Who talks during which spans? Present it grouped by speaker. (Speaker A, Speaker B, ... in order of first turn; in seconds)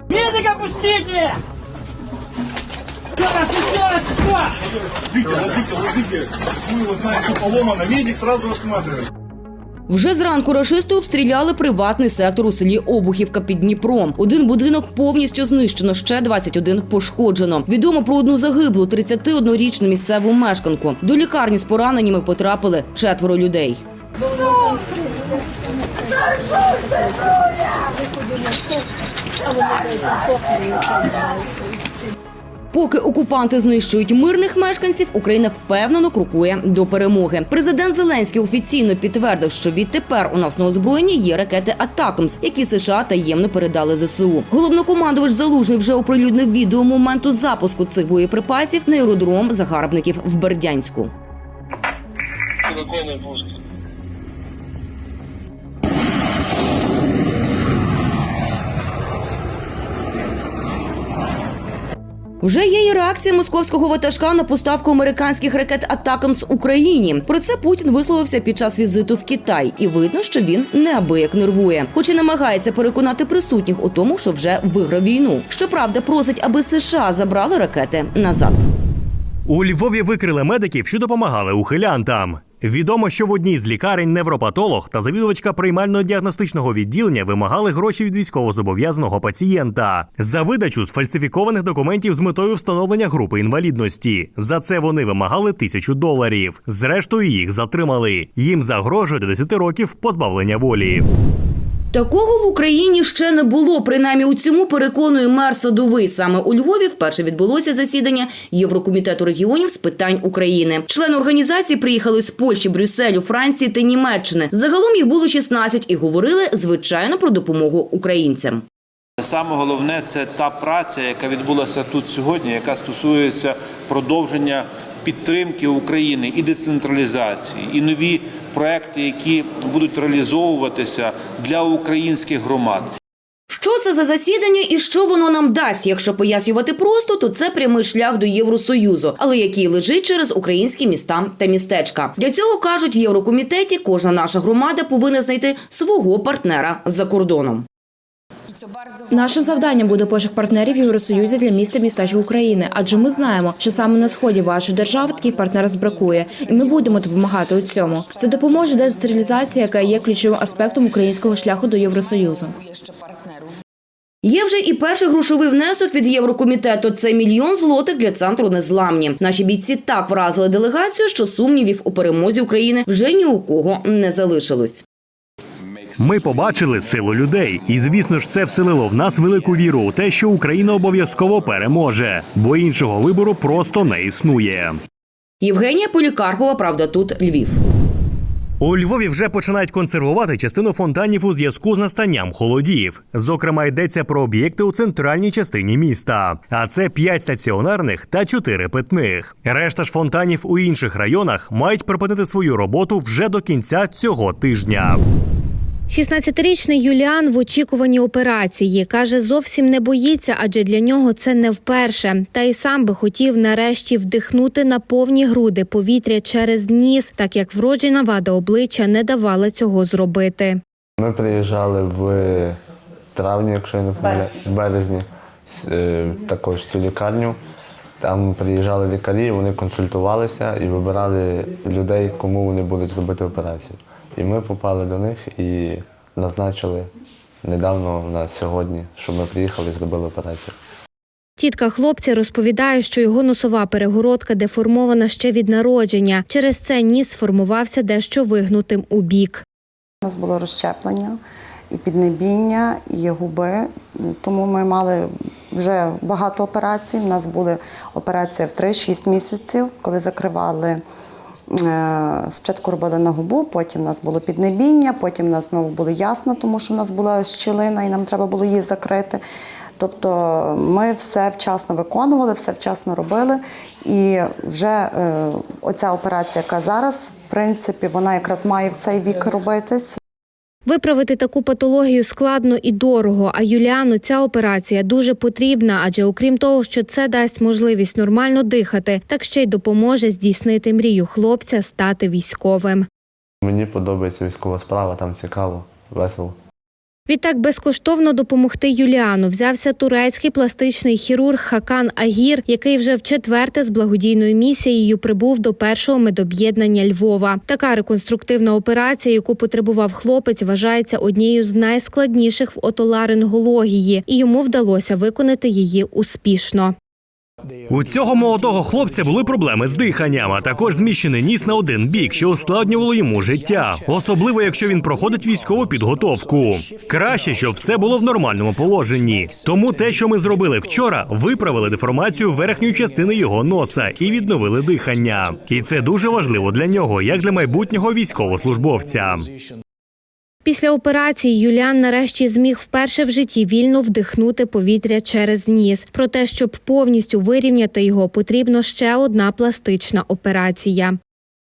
Speaker A: 9.9-23.8, 32.7-51.1, 62.4-78.7, 101.9-118.7, 133.5-147.7, 164.2-174.8, 185.4-187.6
Speaker B: 79.5-101.0, 176.0-184.8, 188.6-205.0, 317.7-339.3
Speaker C: 119.2-132.9
Speaker D: 149.1-162.5
Speaker E: 205.9-220.6, 241.4-249.4, 280.7-292.9, 297.1-316.8, 340.4-351.0
Speaker F: 221.0-222.6, 223.1-227.4, 228.0-236.9, 237.4-240.6, 293.4-296.4
Speaker G: 250.0-251.2, 251.7-260.8, 261.5-269.2, 269.8-280.0